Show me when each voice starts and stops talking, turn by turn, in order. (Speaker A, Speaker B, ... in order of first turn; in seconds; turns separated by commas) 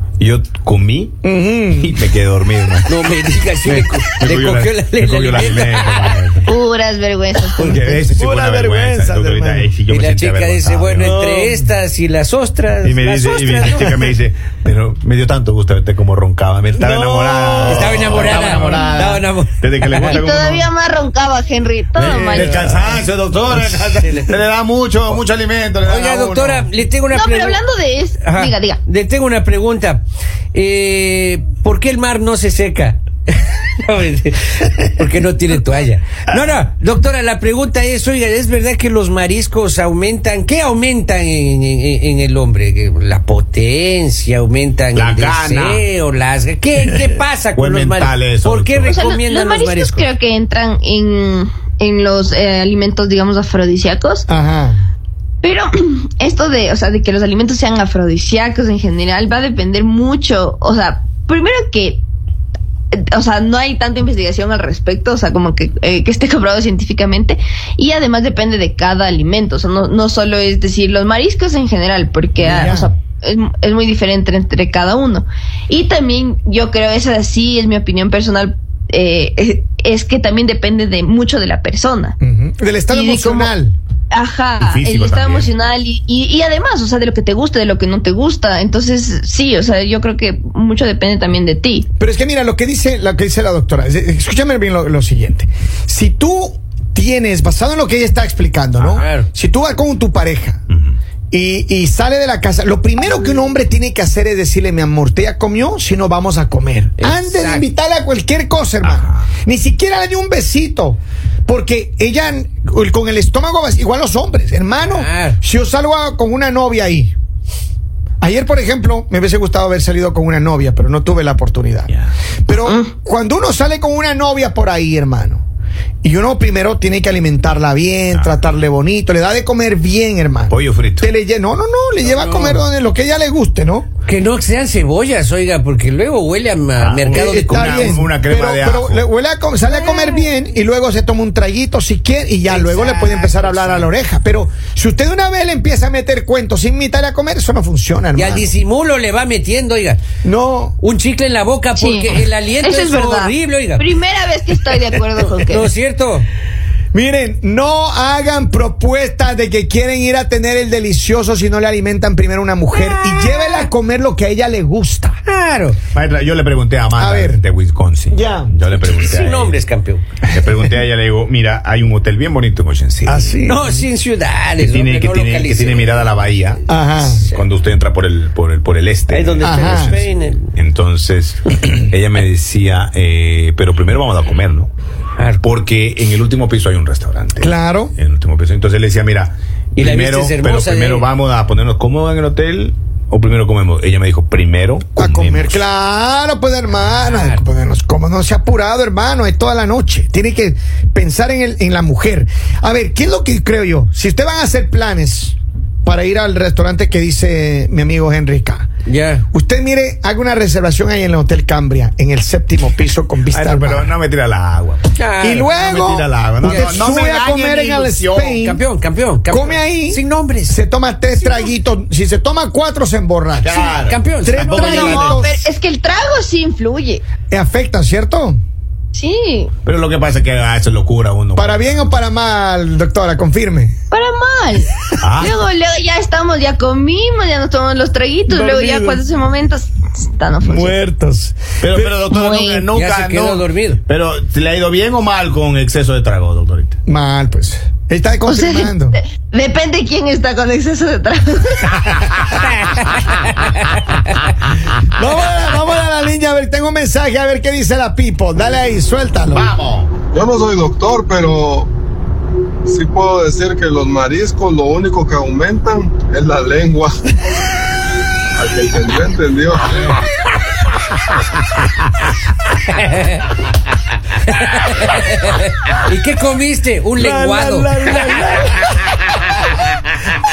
Speaker A: 0.2-1.2, Speaker B: 1.2-2.0, Speaker A: 1.8-2.9, Speaker C: 2.9-6.3, Speaker A: 3.6-6.5, Speaker D: 6.5-7.7, Speaker A: 7.6-11.2, Speaker B: 7.6-9.7, Speaker C: 9.9-14.1, Speaker B: 11.0-11.7, Speaker A: 12.8-20.7, Speaker B: 16.8-18.8, Speaker C: 17.6-20.2, Speaker D: 18.6-19.0, Speaker D: 20.1-22.6, Speaker B: 22.0-23.0, Speaker A: 22.1-26.7, Speaker C: 22.4-22.9, Speaker C: 23.9-24.4, Speaker C: 25.9-27.6, Speaker D: 27.1-28.8, Speaker C: 28.2-50.1, Speaker A: 44.9-45.9, Speaker A: 47.5-49.0, Speaker D: 48.9-54.3, Speaker B: 54.3-54.9, Speaker D: 55.4-62.0, Speaker D: 62.9-82.2, Speaker B: 72.4-72.9, Speaker B: 82.2-83.8, Speaker D: 82.9-83.5, Speaker D: 84.1-91.9, Speaker A: 84.6-85.5, Speaker B: 92.0-100.6, Speaker C: 98.8-99.3, Speaker A: 100.7-101.0, Speaker B: 101.3-117.1, Speaker C: 107.0-107.7, Speaker A: 108.8-109.3, Speaker C: 114.8-115.4, Speaker B: 118.2-121.9, Speaker B: 122.5-125.4, Speaker B: 126.0-133.9, Speaker A: 130.5-131.1, Speaker C: 132.0-132.6, Speaker C: 134.1-138.0, Speaker A: 136.8-139.1, Speaker B: 137.2-148.5, Speaker C: 139.7-140.3, Speaker C: 142.5-143.9, Speaker C: 148.2-150.0, Speaker B: 150.2-150.8, Speaker C: 150.8-153.9, Speaker D: 151.8-155.7, Speaker C: 155.4-156.3, Speaker B: 156.9-165.2, Speaker C: 162.7-163.7, Speaker C: 165.3-165.8, Speaker A: 165.9-169.6, Speaker B: 167.0-167.4, Speaker B: 168.1-168.5, Speaker C: 168.9-170.0, Speaker A: 170.3-173.4, Speaker B: 173.1-173.8, Speaker C: 173.4-176.3, Speaker A: 174.6-176.6, Speaker B: 176.7-177.3, Speaker C: 177.0-177.5, Speaker A: 177.2-179.9, Speaker C: 179.1-180.5, Speaker B: 179.4-180.0, Speaker A: 180.6-184.7, Speaker C: 185.2-185.4, Speaker A: 185.4-195.6, Speaker B: 187.4-187.9, Speaker C: 189.8-191.1, Speaker B: 195.0-208.7, Speaker C: 197.0-197.4, Speaker C: 208.9-209.2, Speaker B: 209.3-213.9, Speaker A: 213.3-218.4, Speaker C: 215.0-215.5, Speaker B: 215.2-218.6, Speaker C: 216.4-216.8, Speaker C: 218.3-220.6, Speaker B: 219.3-225.4, Speaker A: 223.4-225.1, Speaker C: 223.8-225.2, Speaker D: 224.6-227.1, Speaker B: 227.3-228.4, Speaker D: 228.9-229.5, Speaker A: 229.7-231.7, Speaker B: 231.4-233.8, Speaker D: 233.9-240.8, Speaker A: 235.0-235.4, Speaker B: 238.3-239.0, Speaker B: 240.4-242.0, Speaker A: 241.6-246.8, Speaker D: 242.1-242.7, Speaker C: 242.7-243.8, Speaker B: 246.9-249.0, Speaker D: 248.2-251.9, Speaker A: 251.9-252.4, Speaker C: 252.3-254.3, Speaker B: 254.9-259.5, Speaker A: 259.3-260.0, Speaker E: 260.1-261.7, Speaker E: 262.6-267.1, Speaker E: 268.4-270.0, Speaker C: 272.7-273.3, Speaker C: 274.1-278.5, Speaker B: 277.0-278.8